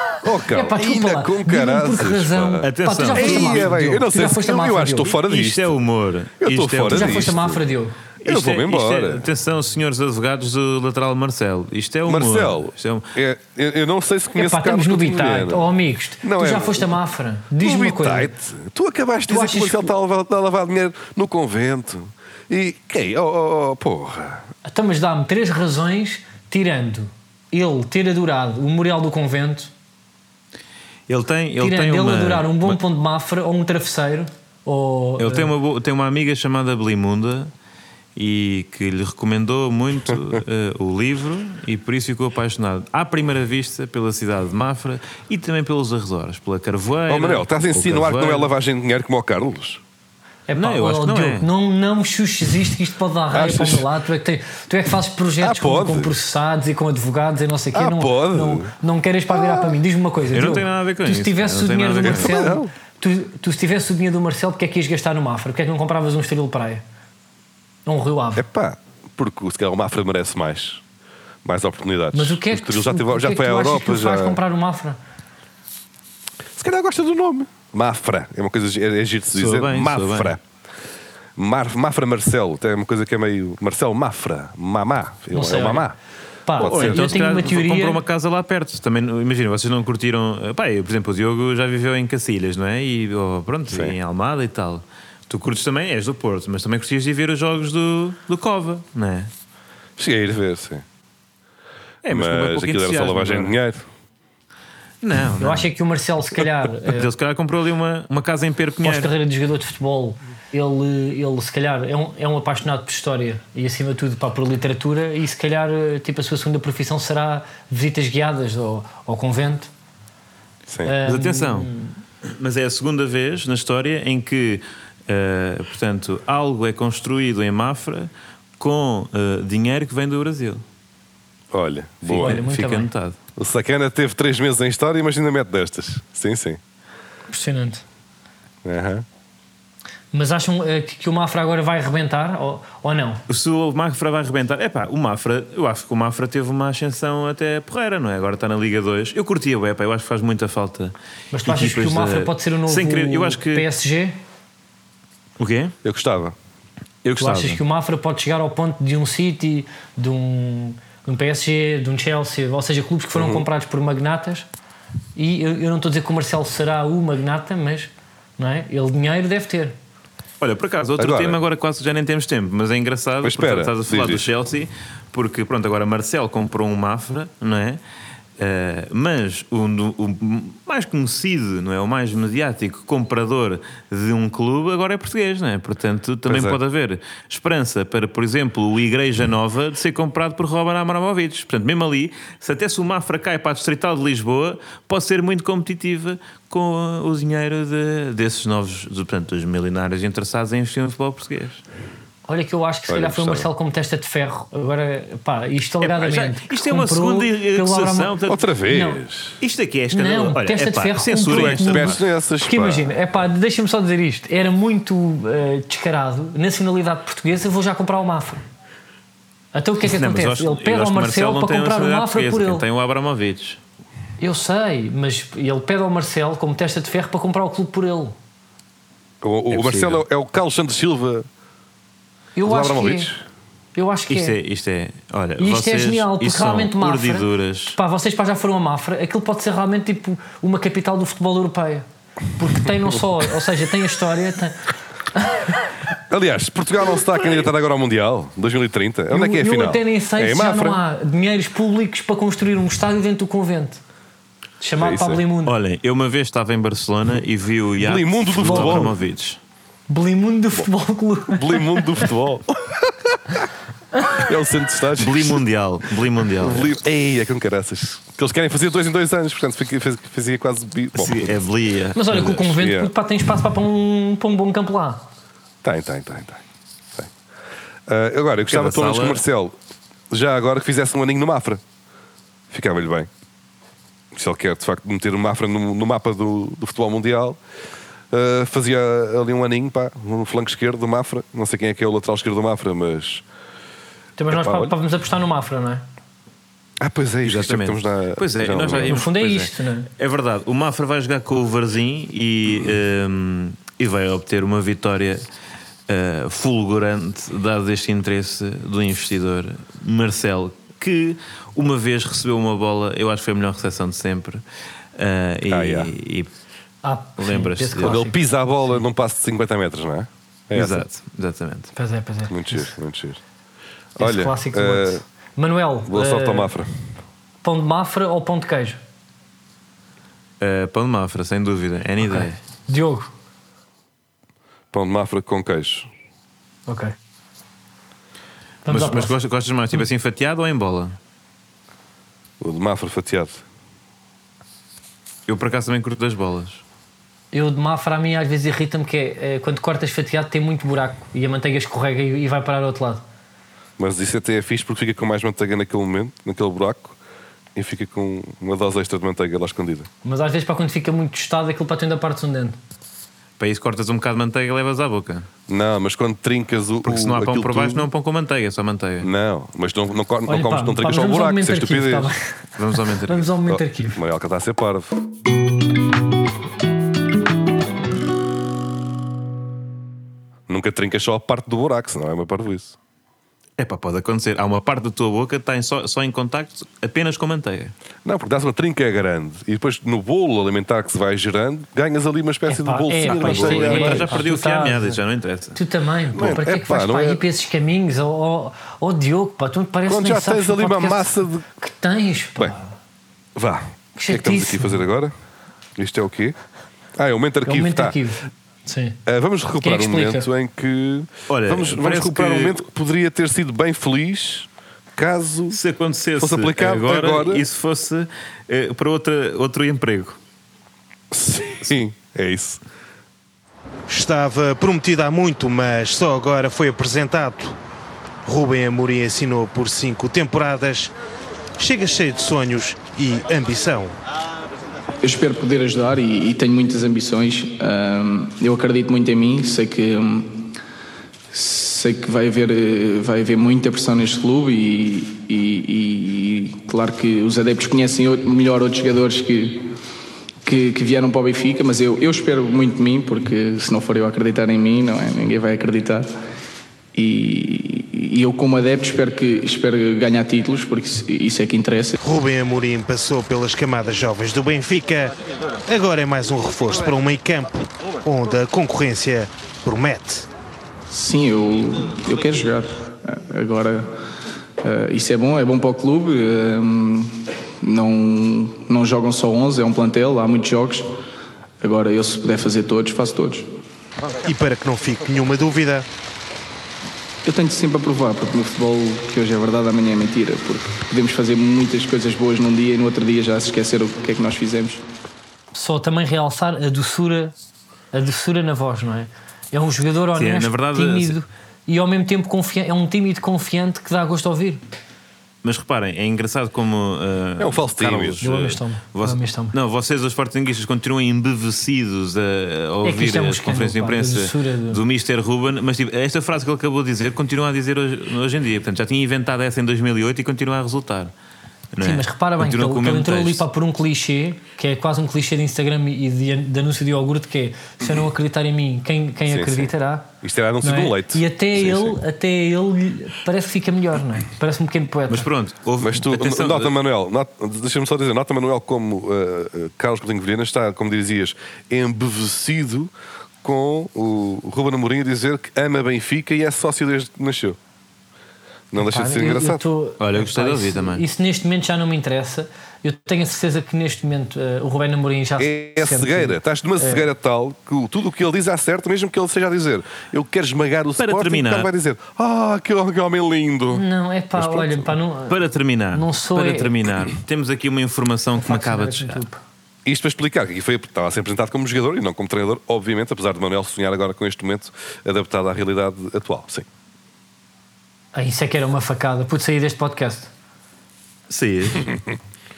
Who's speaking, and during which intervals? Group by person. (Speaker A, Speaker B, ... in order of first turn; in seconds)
Speaker A: 0.2-5.8, 6.4-7.6, 8.2-9.3, 12.1-15.7, 16.2-17.0, 17.6-24.4, 47.1-49.8, 53.3-53.9, 55.4-56.1, 57.7-58.7, 59.3-59.8, 62.0-62.7, 68.4-70.8, 71.4-74.4, 76.6-80.4, 81.4-86.0, 86.6-87.2, 93.7-94.0, 100.0-100.8, 102.1-103.9, 120.7-121.0, 131.5-132.4, 133.4-136.6, 138.6-139.1, 155.8-156.4, 163.1-163.4, 171.0-171.4, 173.2-174.3, 186.3-186.6, 202.9-203.5, 208.3-209.4, 211.3-212.9, 229.2-231.3, 232.4-233.2, 246.1-250.8, 254.8-255.2, 257.8-258.9, 261.4-263.4, 264.2-265.4, 266.4-271.4, 272.4-272.9, 275.6-276.4, 277.9-279.6, 280.1-281.6, 282.5-283.1, 284.1-287.4, 288.1-293.2, 294.3-294.7, 296.8-299.0, 315.5-315.9, 317.8-320.9, 322.3-323.2, 324.0-325.0, 325.9-326.7, 334.7-335.9, 342.4-343.4, 353.8-357.0, 357.6-359.9, 365.5-367.9, 369.0-372.1, 373.5-375.0, 380.5-382.8, 388.1-394.2, 396.1-397.2, 399.9-401.4, 403.4-405.1, 405.8-406.4, 407.0-408.0, 409.1-415.6, 416.2-417.5, 421.1-422.6, 507.4-508.2, 529.3-532.0, 535.8-542.9, 543.4-547.6, 548.7-549.6, 555.4-563.8, 564.4-564.9, 569.9-576.7
Speaker B: 0.5-5.1, 6.9-8.0, 14.3-18.3, 19.3-19.9, 24.6-29.7, 31.6-35.5, 50.5-66.8, 67.9-68.4, 72.1-75.0, 85.3-85.9, 86.5-88.0, 105.4-107.1, 108.8-119.7, 120.8-122.0, 132.2-132.9, 137.3-137.8, 140.1-143.2, 151.3-154.2, 157.2-164.5, 165.2-169.8, 202.3-209.0, 209.9-218.4, 219.5-222.6, 224.2-228.2, 232.3-233.1, 233.8-234.4, 235.4-244.6, 245.2-245.6, 249.1-253.8, 254.6-255.6, 258.4-258.9, 259.9-261.9, 271.9-275.1, 294.2-295.8, 298.8-299.9, 316.8-318.2, 321.8-322.8, 324.0-326.5, 327.4-328.8, 332.0-333.1, 336.7-336.9, 338.6-339.1, 347.3-353.0, 360.0-362.6, 370.3-372.3, 373.1-374.0, 392.5-395.0, 395.6-402.7, 404.0-404.8, 407.5-409.0, 409.6-410.3, 495.5-497.3, 497.9-504.6, 508.2-509.6, 512.8-514.8, 521.8-530.1, 530.6-535.3, 548.8-557.1, 563.7-565.4, 565.9-566.7, 568.4-569.4, 578.1-580.3
Speaker C: 2.6-3.7, 5.2-7.4, 8.2-13.1, 31.1-32.8, 35.2-37.5, 38.2-48.5, 50.6-51.5, 60.3-62.4, 79.3-80.4, 86.6-99.3, 102.0-103.6, 105.0-105.7, 106.9-109.1, 121.0-121.7, 122.2-130.6, 132.1-133.2, 143.3-153.7, 155.4-155.8, 157.0-157.6, 170.4-177.8, 178.4-201.6, 205.8-208.4, 209.4-212.0, 219.9-223.6, 229.5-230.0, 234.1-237.8, 255.4-259.4, 265.0-266.7, 271.0-272.5, 278.5-279.2, 297.2-305.2, 305.9-314.4, 315.0-316.3, 317.2-318.0, 320.5-321.7, 330.4-332.4, 338.7-341.0, 345.3-346.6, 363.4-365.3, 366.8-369.1, 372.6-373.3, 383.6-387.7, 393.1-395.6, 411.3-412.6, 415.5-420.2, 500.2-501.1, 505.4-521.1, 521.7-523.4, 535.1-536.7, 550.0-551.0, 561.0-561.7, 565.3-569.2, 581.3-581.9
Speaker D: 423.9-427.6, 428.2-430.9, 431.6-433.9, 462.0-465.2, 465.7-470.3, 484.2-485.9
Speaker E: 435.0-440.6, 441.3-449.7, 450.4-456.1, 456.9-462.0, 470.9-473.9, 474.6-480.9, 481.6-483.5, 487.2-494.8